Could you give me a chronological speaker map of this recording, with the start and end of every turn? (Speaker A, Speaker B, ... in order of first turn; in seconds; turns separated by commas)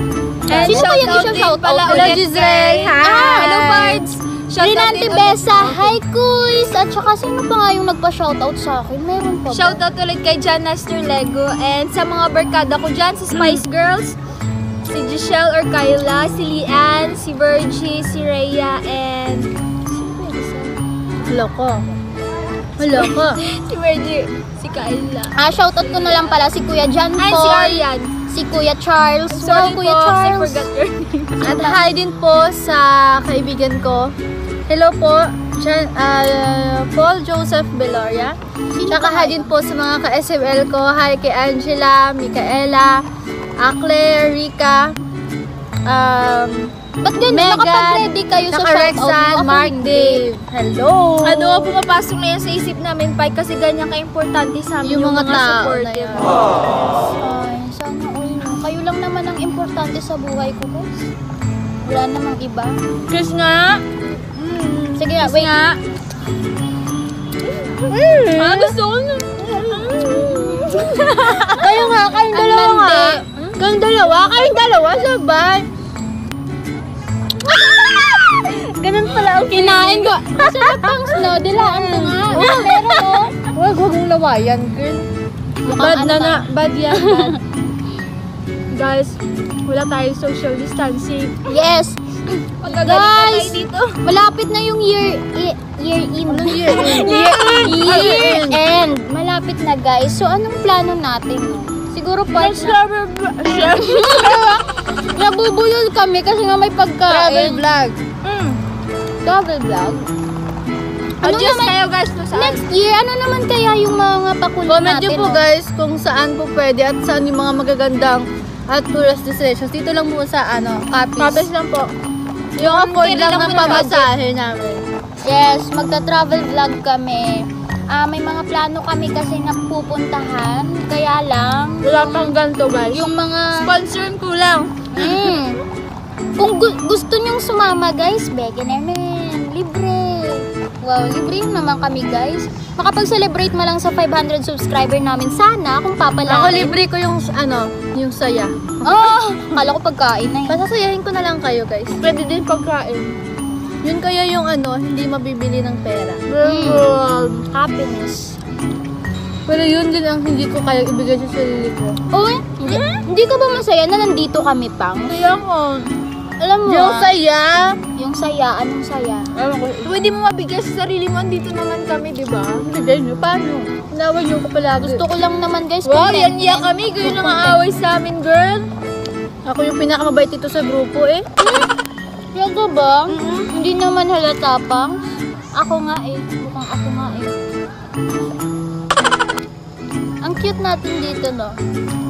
Speaker A: 0.5-1.1, Speaker B: 0.5-6.0, Speaker C: 0.6-2.2, Speaker A: 1.9-4.0, Speaker C: 4.6-9.8, Speaker B: 9.5-14.2, Speaker A: 13.3-13.6, Speaker B: 14.9-20.8, Speaker A: 21.3-21.8, Speaker A: 22.8-23.4, Speaker B: 22.8-26.4, Speaker C: 25.3-30.7, Speaker B: 27.2-28.1, Speaker B: 29.4-31.6, Speaker A: 31.4-34.1, Speaker C: 31.5-31.8, Speaker A: 34.7-38.4, Speaker C: 38.7-39.5, Speaker A: 38.9-43.0, Speaker A: 43.6-44.9, Speaker A: 45.9-46.7, Speaker C: 47.0-50.3, Speaker A: 47.3-51.8, Speaker B: 51.2-56.3, Speaker A: 54.8-56.4, Speaker C: 57.2-61.1, Speaker C: 61.8-62.8, Speaker B: 63.1-63.8, Speaker A: 64.4-65.1, Speaker C: 65.0-65.6, Speaker B: 65.0-65.8, Speaker B: 67.5-72.1, Speaker A: 67.9-68.8, Speaker C: 70.1-70.8, Speaker A: 71.3-75.7, Speaker C: 72.3-73.3, Speaker B: 77.4-81.2, Speaker C: 79.4-83.3, Speaker A: 81.5-82.8, Speaker B: 82.3-83.2, Speaker A: 83.5-85.1, Speaker C: 85.6-87.4, Speaker A: 85.7-87.3, Speaker B: 88.7-91.6, Speaker C: 91.5-102.8, Speaker B: 92.6-94.0, Speaker A: 96.3-98.6, Speaker B: 96.7-98.3, Speaker B: 102.3-104.5, Speaker C: 103.6-107.6, Speaker A: 107.1-108.0, Speaker C: 109.2-110.0, Speaker B: 111.2-112.7, Speaker C: 111.2-115.4, Speaker A: 114.7-121.5, Speaker B: 121.2-121.9, Speaker A: 122.6-124.9, Speaker C: 122.6-124.1, Speaker B: 122.7-124.0, Speaker C: 125.2-133.7, Speaker A: 131.8-133.1, Speaker B: 133.5-135.2, Speaker C: 134.9-135.6, Speaker C: 136.4-146.8, Speaker A: 146.2-149.3, Speaker C: 148.8-150.6, Speaker A: 150.5-152.2, Speaker B: 152.1-153.1, Speaker A: 153.8-157.4, Speaker C: 156.4-156.9, Speaker C: 157.5-158.4, Speaker A: 159.5-162.0, Speaker C: 162.1-165.2, Speaker A: 165.1-165.9, Speaker C: 166.4-167.1, Speaker A: 166.7-167.8, Speaker C: 168.0-169.3, Speaker A: 169.4-169.9, Speaker B: 169.8-172.6, Speaker A: 172.6-175.0, Speaker C: 174.8-176.7, Speaker B: 175.8-178.7, Speaker A: 177.1-177.6, Speaker A: 179.4-181.2, Speaker C: 181.4-181.7, Speaker C: 182.3-185.0, Speaker A: 183.1-183.5, Speaker C: 185.6-187.3, Speaker C: 190.2-191.6